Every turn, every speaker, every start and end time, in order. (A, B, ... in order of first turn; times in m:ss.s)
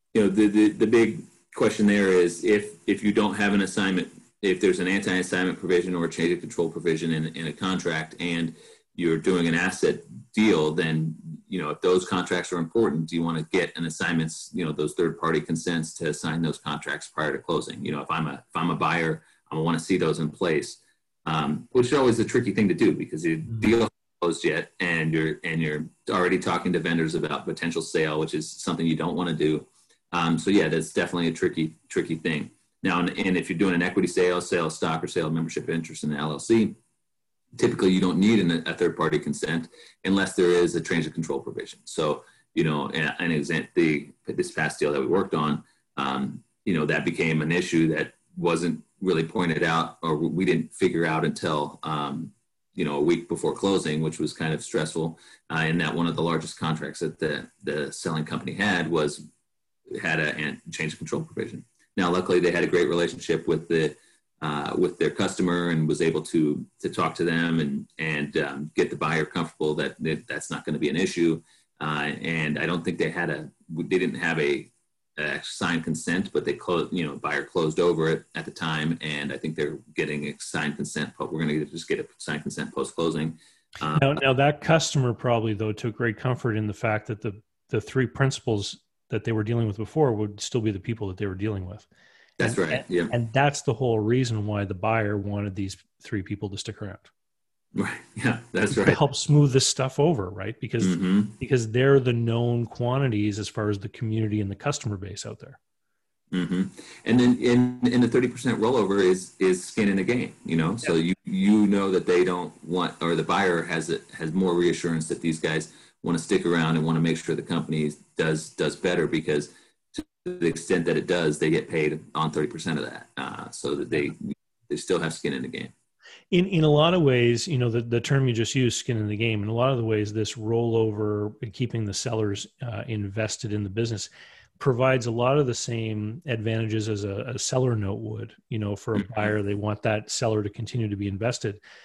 0:00.1-0:36.8 A
0:37.6-0:59.2 A
0:59.9-1:24.2 A
1:24.0-1:31.9 B
1:32.4-1:33.1 A
1:32.4-1:37.1 B
1:37.8-1:39.0 A
1:38.7-1:45.6 B
1:40.8-1:41.4 A
1:46.3-2:05.7 A
2:06.3-2:21.6 B
2:19.0-2:19.3 A